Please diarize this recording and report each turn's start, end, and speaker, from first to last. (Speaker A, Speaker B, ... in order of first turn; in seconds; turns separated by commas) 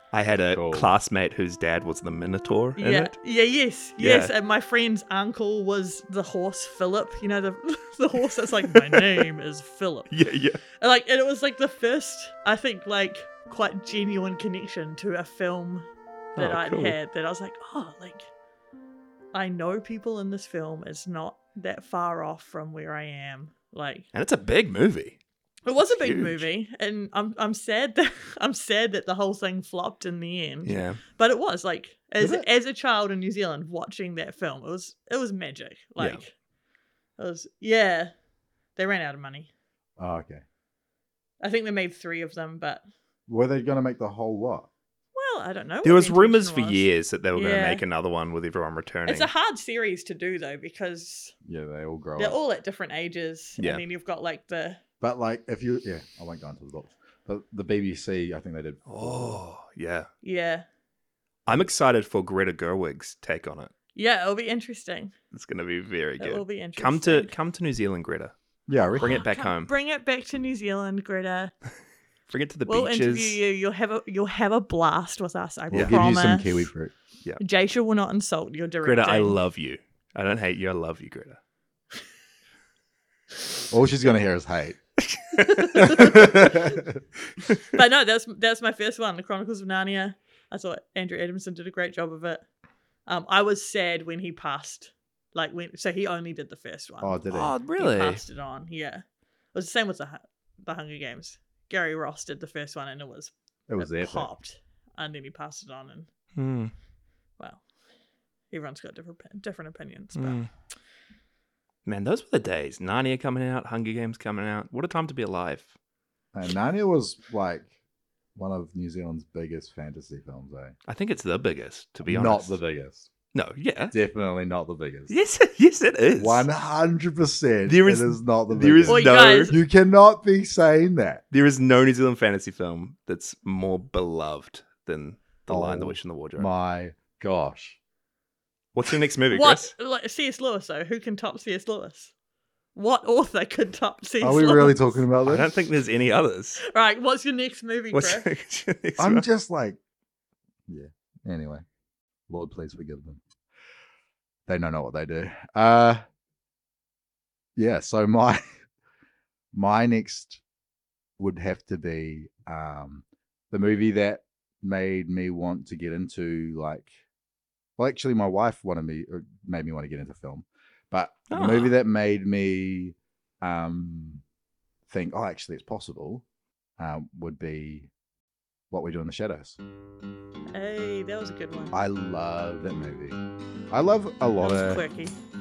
Speaker A: 0.1-3.1, Speaker B: 0.5-0.9, Speaker C: 2.8-10.1, Speaker A: 4.0-4.3, Speaker A: 8.7-9.2, Speaker A: 10.1-10.6, Speaker C: 10.8-18.3, Speaker A: 16.4-16.9, Speaker C: 19.3-24.1, Speaker A: 24.1-25.2, Speaker C: 25.6-36.3, Speaker A: 25.8-26.4, Speaker A: 30.6-31.0, Speaker B: 32.2-32.5, Speaker C: 37.2-38.1, Speaker C: 38.8-39.5, Speaker B: 40.0-40.4, Speaker C: 41.4-42.8, Speaker B: 43.3-44.7, Speaker C: 45.1-47.8, Speaker A: 45.8-49.3, Speaker C: 49.0-51.3, Speaker B: 51.4-52.4, Speaker C: 52.2-54.8, Speaker A: 53.6-53.8, Speaker B: 55.0-59.4, Speaker A: 58.9-60.1, Speaker C: 60.2-60.6, Speaker A: 61.5-63.7, Speaker C: 63.9-65.1, Speaker A: 65.3-68.3, Speaker C: 66.2-67.3, Speaker B: 68.7-69.2, Speaker C: 68.8-71.5, Speaker A: 69.0-69.7, Speaker A: 72.3-73.4, Speaker C: 72.7-76.7, Speaker B: 75.7-76.9, Speaker A: 75.7-76.0, Speaker C: 77.4-79.4, Speaker A: 78.8-81.4, Speaker B: 83.7-84.8, Speaker A: 85.0-86.1, Speaker C: 85.5-86.6, Speaker B: 85.7-87.0, Speaker C: 87.7-92.4, Speaker C: 93.0-97.2, Speaker B: 97.0-97.5, Speaker A: 97.3-98.2, Speaker C: 97.8-106.1, Speaker B: 103.7-104.3, Speaker A: 106.3-106.7, Speaker C: 107.4-107.6, Speaker C: 108.5-110.4, Speaker A: 110.1-110.5, Speaker A: 111.8-115.7, Speaker B: 116.3-117.7, Speaker B: 118.3-120.7, Speaker A: 120.9-122.6, Speaker B: 122.0-123.1, Speaker A: 123.3-123.9, Speaker B: 123.9-125.1, Speaker A: 125.1-126.5, Speaker B: 126.2-131.2, Speaker A: 127.7-129.5, Speaker C: 128.9-129.6, Speaker A: 131.3-136.5, Speaker B: 135.5-137.8, Speaker A: 138.7-139.7, Speaker C: 139.3-142.1, Speaker C: 142.7-145.0, Speaker B: 144.2-145.5, Speaker A: 145.2-146.6, Speaker C: 146.6-148.3, Speaker A: 147.9-149.2, Speaker B: 149.0-149.8, Speaker B: 150.7-151.6, Speaker B: 152.3-153.2, Speaker B: 154.5-156.0, Speaker B: 157.6-158.6, Speaker B: 159.5-160.4, Speaker B: 161.2-166.9, Speaker B: 167.8-174.2, Speaker A: 171.3-171.7, Speaker B: 174.9-176.2, Speaker B: 176.8-177.9, Speaker B: 178.7-179.6, Speaker C: 180.5-181.8, Speaker B: 181.7-183.2, Speaker B: 183.7-184.8, Speaker C: 184.4-185.1